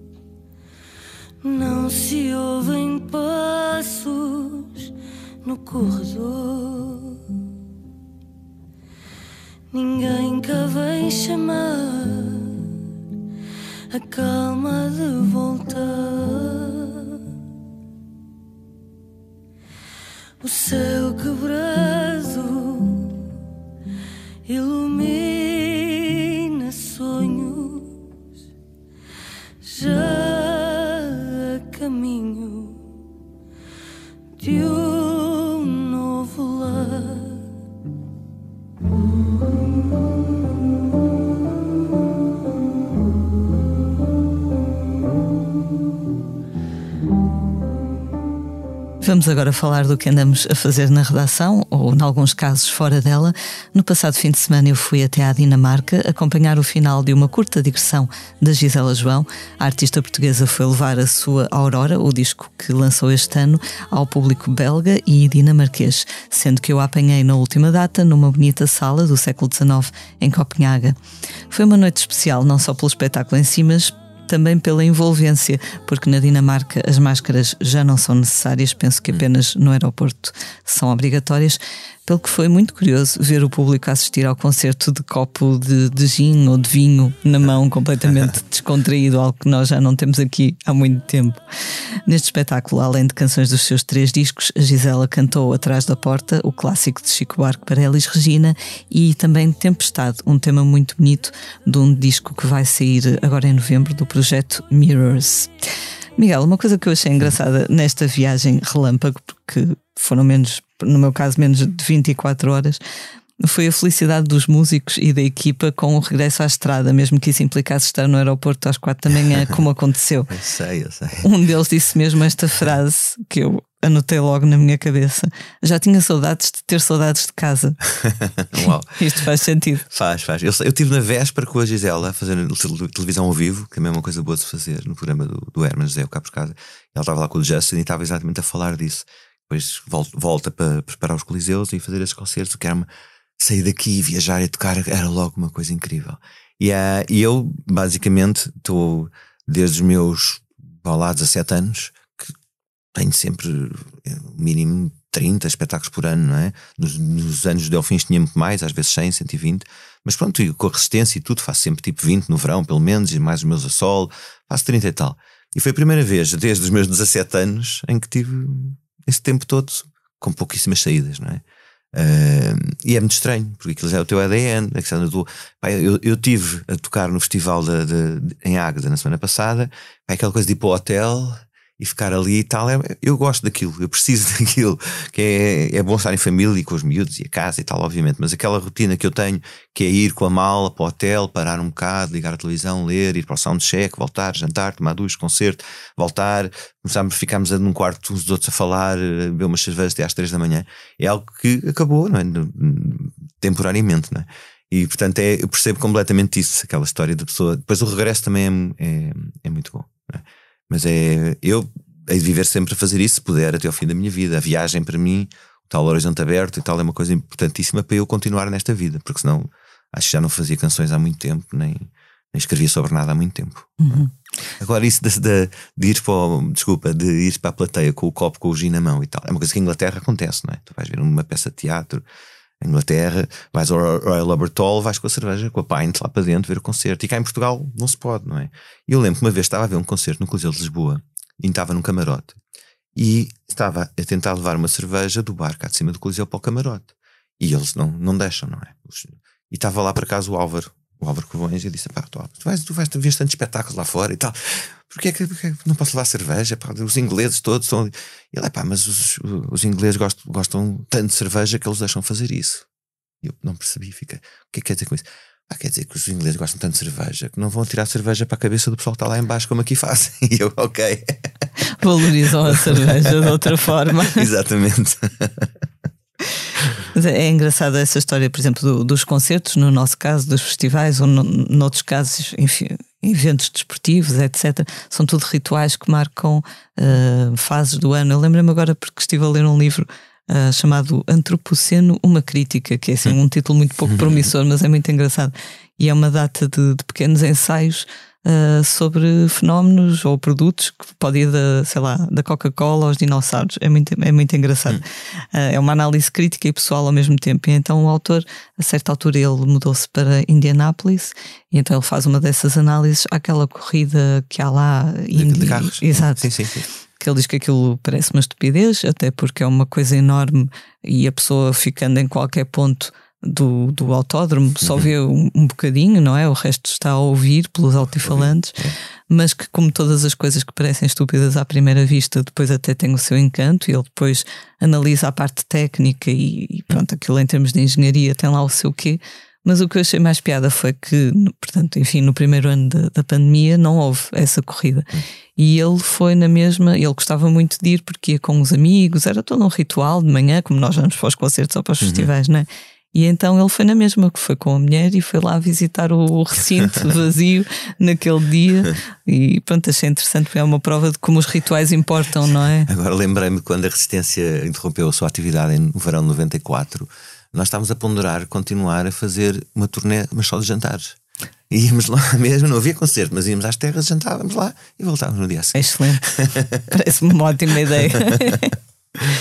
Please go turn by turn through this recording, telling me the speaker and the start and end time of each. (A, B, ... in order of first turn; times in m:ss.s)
0:01.4-0:04.9 A
0:05.4-0:07.2 A
0:09.7-0:12.8 A
0:13.9-0:17.2 A
0:20.4-0:23.3 A
0:24.5-0:27.9 A
0:29.6-0:32.8 A
0:34.4-0:37.4 A
0:49.0-1:11.0 B
1:11.5-1:31.4 B
1:32.0-1:45.5 B
1:46.2-1:52.8 B
1:53.4-2:00.3 B
2:00.3-2:01.3 C
2:01.2-2:07.8 B
2:08.0-2:08.9 C
2:09.0-2:09.8 B
2:09.8-2:22.9 C
2:23.4-2:32.2 C
2:32.9-3:44.0 C
3:43.8-3:44.1 B
3:44.6-3:52.0 C
3:52.6-4:02.4 C
4:03.0-4:22.7 C
4:23.2-4:31.3 C
4:31.7-4:34.3 B
4:32.2-4:33.4 C
4:34.0-4:35.5 C
4:36.9-5:16.3 B
4:53.9-4:54.3 C
5:15.1-5:16.7 C
5:17.0-6:02.7 B
5:24.6-5:24.9 C
5:28.0-5:28.8 C
5:51.8-5:52.1 C
6:02.7-6:11.0 C
6:11.5-6:16.7 C
6:15.5-6:16.0 B
6:16.7-6:18.6 B
6:17.8-6:18.2 C